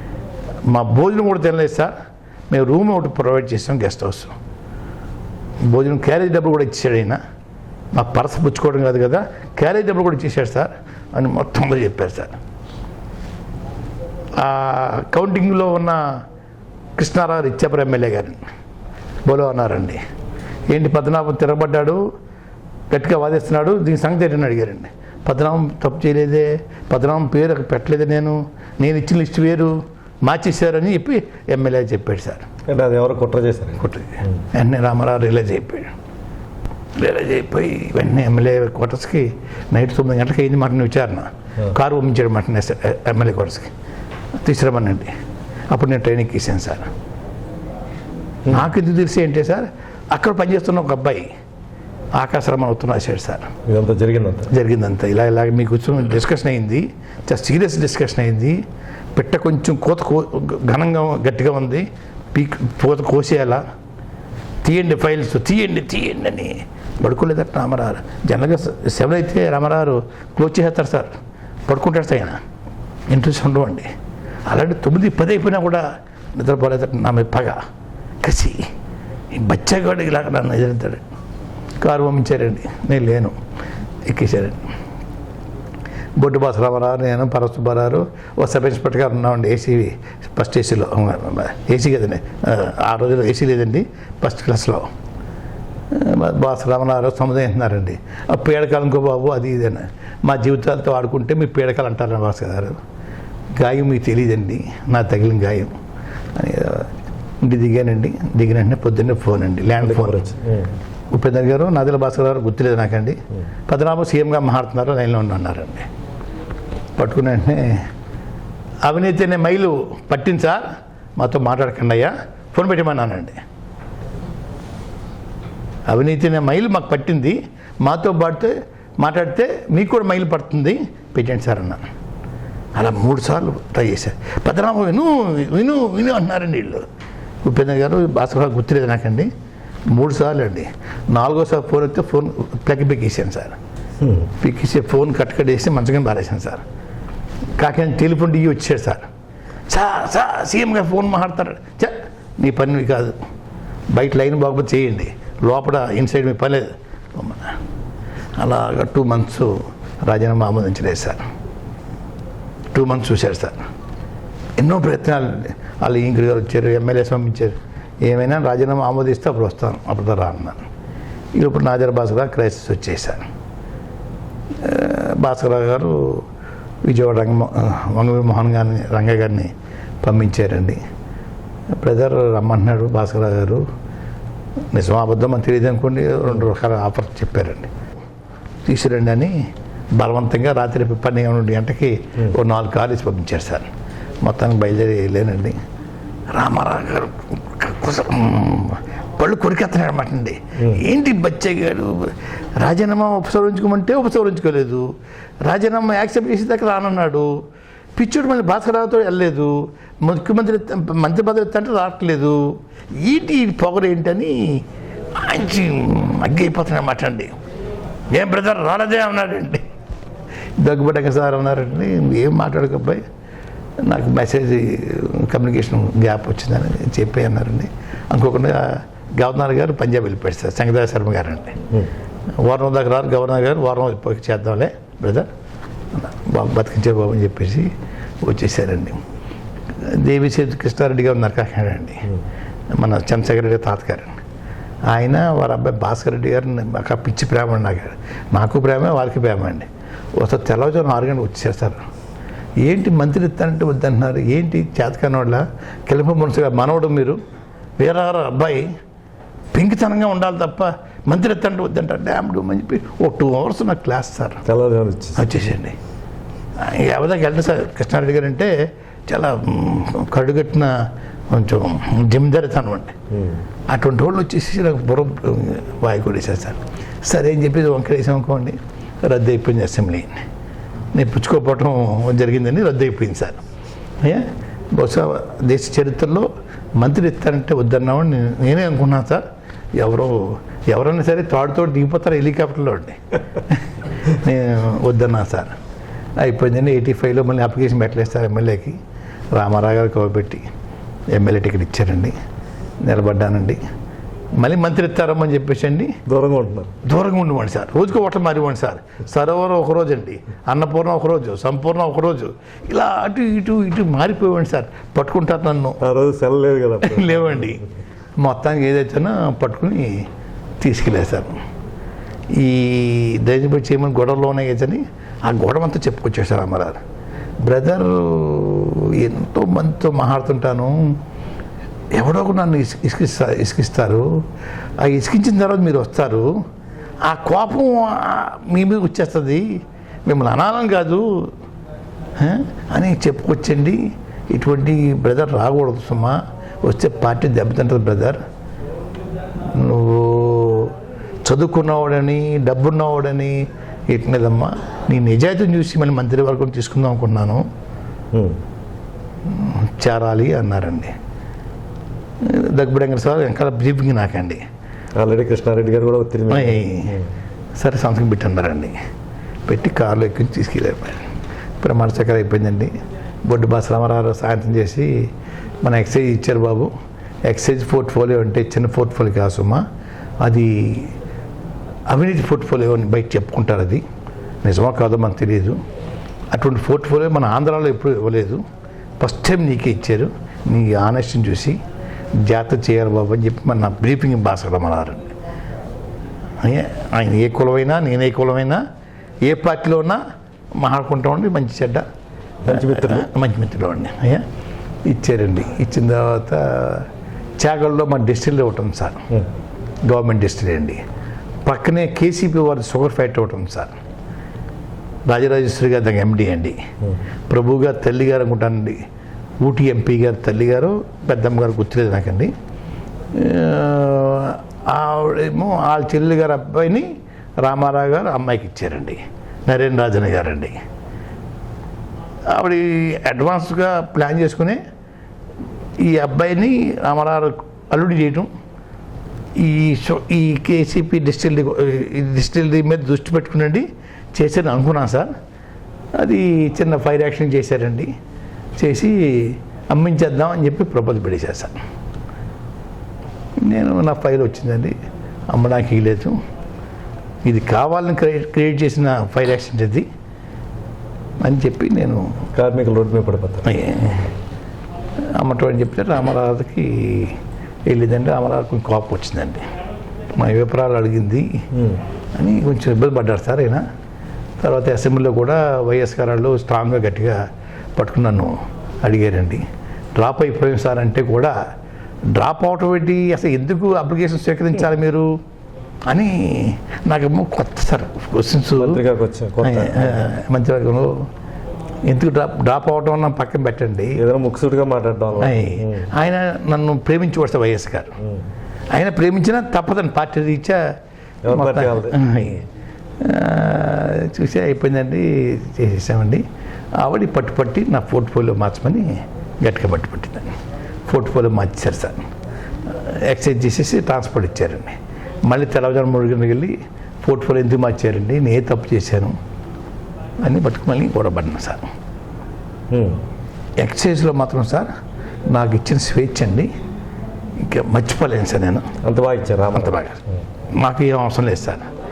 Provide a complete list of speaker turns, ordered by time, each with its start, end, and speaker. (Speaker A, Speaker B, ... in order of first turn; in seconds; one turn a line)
Speaker A: 0.7-1.9
Speaker A: 2.5-4.3
Speaker A: 5.7-7.2
Speaker A: 7.9-12.3
Speaker A: 14.4-16.2
Speaker A: 17.0-18.4
Speaker A: 19.2-20.0
Speaker A: 20.7-22.0
Speaker A: 22.9-32.5
Speaker B: 32.7-33.8
Speaker A: 33.8-35.9
Speaker A: 37.0-43.7
Speaker A: 44.4-45.1
Speaker A: 45.7-46.9
Speaker A: 48.5-51.3
Speaker A: 52.2-53.5
Speaker B: 53.7-54.5
Speaker A: 54.5-58.6
Speaker A: 59.1-63.6
Speaker A: 64.6-71.1
Speaker A: 71.7-72.4
Speaker A: 73.1-73.9
Speaker A: 74.5-75.8
Speaker A: 76.3-77.6
Speaker A: 78.2-78.6
Speaker A: 79.3-81.0
Speaker A: 81.8-83.3
Speaker A: 84.0-84.7
Speaker A: 86.2-94.9
Speaker A: 95.9-102.8
Speaker A: 103.5-105.7
Speaker A: 106.3-106.9
Speaker A: 107.4-110.2
Speaker B: 109.8-110.7
Speaker A: 111.1-115.9
Speaker A: 117.0-117.9
Speaker A: 118.8-123.4
Speaker A: 125.9-131.9
Speaker A: 132.7-136.9
Speaker A: 137.4-139.3
Speaker A: 139.9-143.6
Speaker A: 144.4-146.6
Speaker A: 147.6-149.1
Speaker A: 149.7-153.2
Speaker A: 153.9-157.6
Speaker A: 158.4-161.2
Speaker A: 162.7-163.6
Speaker A: 164.6-170.7
Speaker A: 171.3-173.2
Speaker A: 174.6-176.2
Speaker A: 176.8-180.8
Speaker A: 181.7-183.6
Speaker A: 184.7-187.7
Speaker A: 188.7-189.4
Speaker A: 189.9-193.7
Speaker A: 194.2-195.6
Speaker A: 196.3-204.9
Speaker A: 205.4-207.3
Speaker A: 207.9-217.3
Speaker A: 218.1-219.6
Speaker A: 220.6-223.0
Speaker A: 223.8-231.6
Speaker A: 232.4-235.3
Speaker A: 235.9-237.7
Speaker A: 238.2-239.0
Speaker A: 239.8-242.1
Speaker A: 242.7-244.1
Speaker A: 244.9-251.8
Speaker A: 252.6-257.2
Speaker A: 257.8-258.7
Speaker A: 259.5-264.4
Speaker B: 264.4-265.3
Speaker A: 265.2-265.8
Speaker A: 266.6-268.5
Speaker A: 269.1-272.9
Speaker A: 273.7-280.2
Speaker A: 280.9-283.4
Speaker A: 284.0-289.2
Speaker A: 289.8-295.5
Speaker A: 296.2-298.8
Speaker A: 299.3-300.4
Speaker A: 301.1-302.1
Speaker A: 302.8-303.6
Speaker A: 304.4-306.0
Speaker B: 306.1-306.7
Speaker A: 306.8-315.8
Speaker B: 315.8-317.5
Speaker A: 316.8-317.6
Speaker A: 318.2-320.1
Speaker A: 320.6-321.4
Speaker A: 322.3-326.8
Speaker A: 327.4-331.0
Speaker A: 331.9-334.2
Speaker A: 334.8-336.3
Speaker A: 337.0-341.3
Speaker A: 342.2-348.2
Speaker A: 349.5-353.4
Speaker A: 353.9-357.4
Speaker B: 358.1-358.4
Speaker A: 359.2-360.9
Speaker A: 362.2-364.4
Speaker B: 365.0-367.0
Speaker A: 366.3-367.0
Speaker A: 367.6-368.8
Speaker A: 369.4-371.1
Speaker A: 371.6-374.9
Speaker A: 375.6-376.7
Speaker A: 377.2-379.6
Speaker A: 380.2-380.9
Speaker A: 381.9-383.8
Speaker A: 384.4-385.6
Speaker A: 386.3-388.4
Speaker A: 389.0-391.6
Speaker A: 392.2-395.1
Speaker A: 396.4-398.6
Speaker A: 399.2-400.0
Speaker A: 400.6-401.8
Speaker B: 402.4-403.1
Speaker A: 402.5-404.2
Speaker A: 404.8-409.1
Speaker A: 409.9-410.8
Speaker A: 411.4-413.7
Speaker A: 415.1-416.6
Speaker A: 417.3-418.8
Speaker A: 419.4-422.3
Speaker A: 423.1-426.9
Speaker A: 427.4-430.6
Speaker A: 432.3-434.6
Speaker A: 435.8-438.3
Speaker A: 439.4-445.1
Speaker A: 446.0-447.9
Speaker A: 448.6-451.6
Speaker A: 453.4-454.8
Speaker A: 455.3-456.2
Speaker A: 457.2-459.9
Speaker A: 461.2-462.2
Speaker B: 462.4-463.5
Speaker A: 463.4-464.1
Speaker A: 465.2-467.2
Speaker A: 467.7-469.4
Speaker A: 470.1-471.3
Speaker A: 472.1-473.6
Speaker A: 474.4-477.2
Speaker A: 477.8-479.4
Speaker A: 480.0-481.3
Speaker A: 482.1-485.1
Speaker A: 485.9-488.8
Speaker B: 488.6-490.0
Speaker A: 489.4-491.1
Speaker A: 491.9-494.0
Speaker B: 493.9-495.9
Speaker A: 495.2-497.9
Speaker A: 498.7-500.6
Speaker B: 501.2-502.0
Speaker A: 501.3-502.4
Speaker A: 503.0-506.2
Speaker A: 506.8-510.3
Speaker A: 510.9-512.0
Speaker A: 512.6-519.1
Speaker A: 520.2-521.6
Speaker B: 522.7-523.0
Speaker A: 523.6-524.7
Speaker A: 525.3-526.5
Speaker A: 527.4-528.7
Speaker B: 528.8-529.8
Speaker A: 529.5-530.0
Speaker A: 530.6-531.7